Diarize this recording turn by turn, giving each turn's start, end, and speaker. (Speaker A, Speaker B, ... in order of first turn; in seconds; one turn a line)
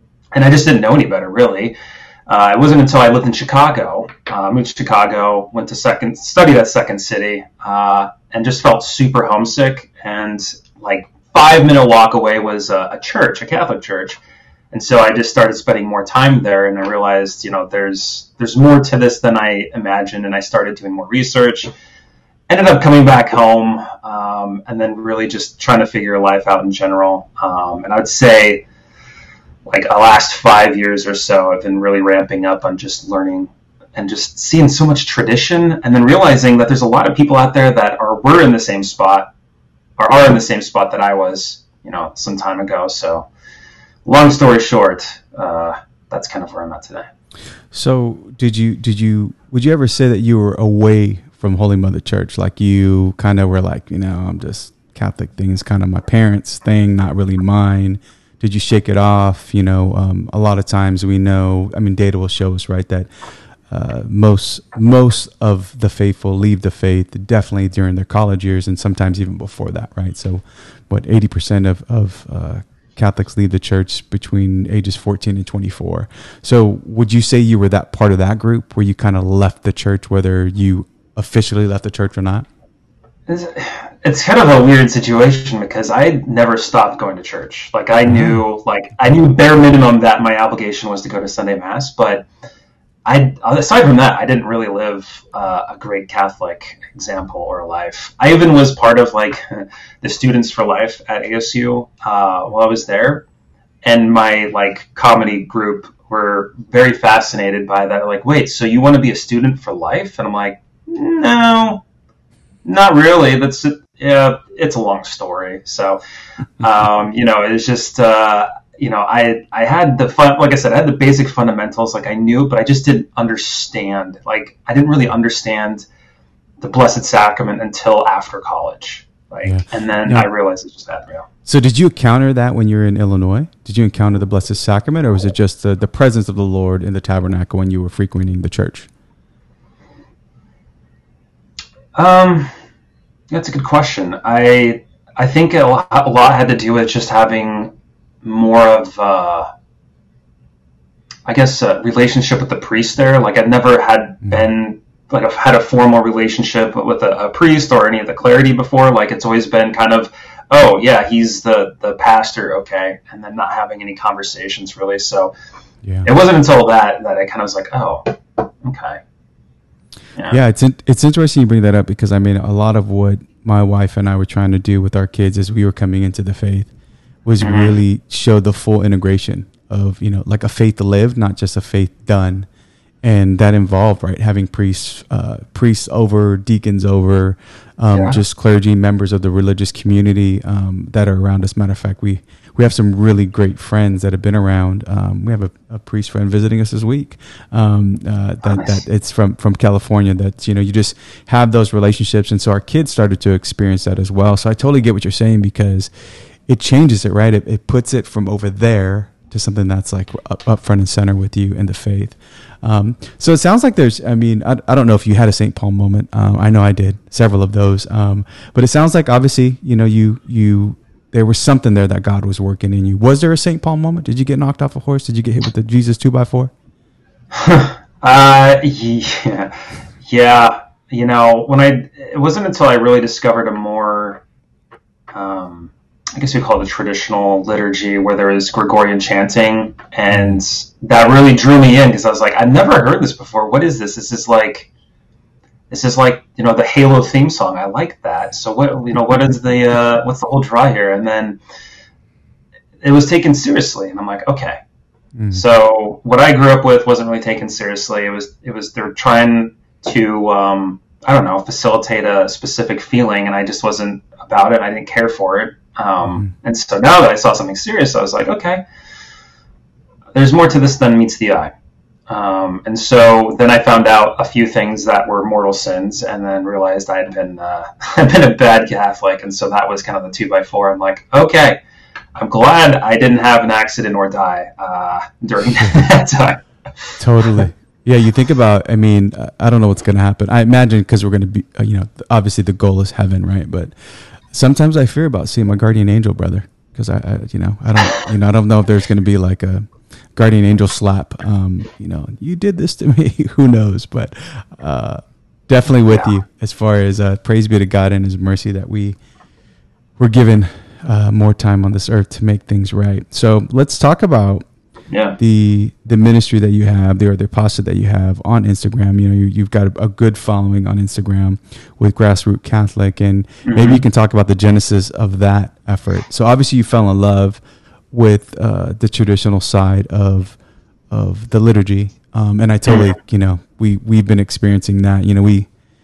Speaker A: 0.3-1.8
Speaker A: 2.3-14.2
Speaker A: 14.7-21.7
Speaker A: 22.5-28.6
Speaker A: 29.7-39.3
Speaker A: 40.0-43.3
Speaker A: 44.1-47.1
Speaker B: 47.7-63.1
Speaker B: 63.7-82.5
Speaker A: 83.3-92.3
Speaker B: 88.1-88.4
Speaker A: 93.1-103.2
Speaker A: 103.8-111.8
Speaker A: 112.7-116.0
Speaker A: 116.6-125.8
Speaker A: 126.6-131.2
Speaker B: 129.4-130.3
Speaker B: 131.4-138.9
Speaker A: 142.0-142.5
Speaker A: 143.3-149.5
Speaker A: 151.3-165.3
Speaker A: 166.1-169.0
Speaker B: 170.3-176.7
Speaker B: 177.3-182.5
Speaker A: 177.4-177.8
Speaker B: 183.0-205.9
Speaker B: 206.5-226.5
Speaker A: 227.3-234.2
Speaker A: 235.1-244.7
Speaker B: 240.1-240.4
Speaker A: 245.7-251.4
Speaker A: 252.8-254.6
Speaker B: 255.2-255.4
Speaker A: 255.3-268.6
Speaker A: 270.1-271.5
Speaker A: 272.1-281.6
Speaker A: 282.2-287.0
Speaker B: 287.0-293.7
Speaker B: 294.3-309.0
Speaker B: 310.0-314.4
Speaker A: 314.9-315.2
Speaker B: 315.2-327.4
Speaker A: 323.4-323.8
Speaker B: 327.9-330.4
Speaker B: 330.9-335.5
Speaker A: 332.7-332.9